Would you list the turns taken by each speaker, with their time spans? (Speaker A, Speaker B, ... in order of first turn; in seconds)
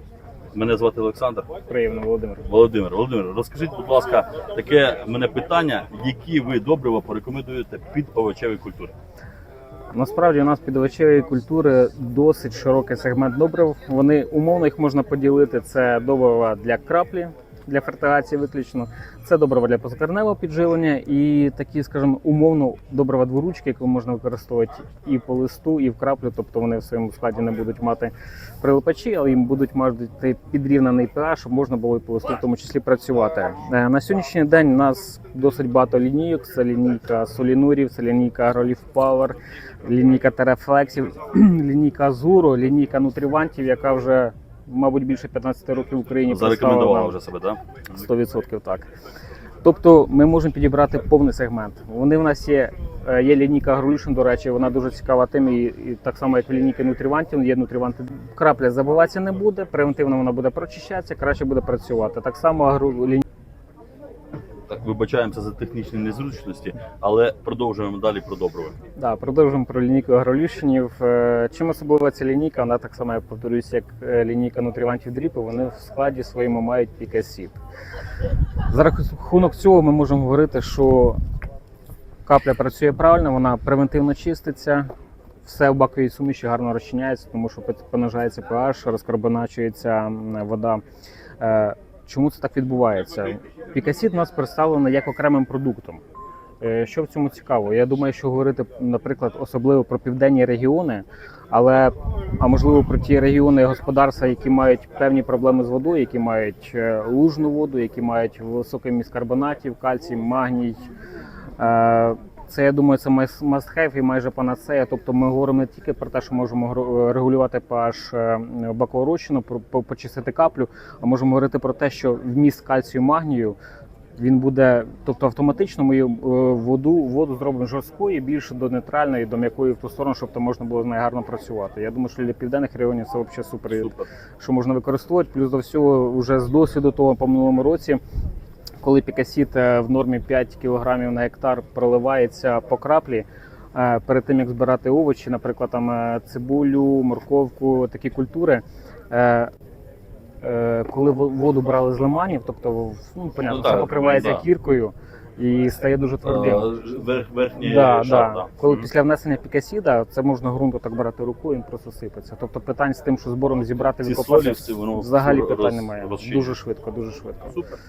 Speaker A: 0.5-1.5, 2.5-8.9, 46.3-47.6, 64.7-68.8, 133.7-134.1, 153.5-154.4, 156.2-158.9, 164.0-166.5, 167.5-167.8
Speaker B: 1.7-2.4, 9.9-47.1, 47.9-48.9, 49.6-63.2, 69.0-77.5, 78.7-81.2, 82.2-84.9, 85.4-90.8, 91.4-96.0, 96.6-110.8, 111.6-123.5, 124.2-138.0, 138.8-149.5, 150.4-156.7, 157.6-167.6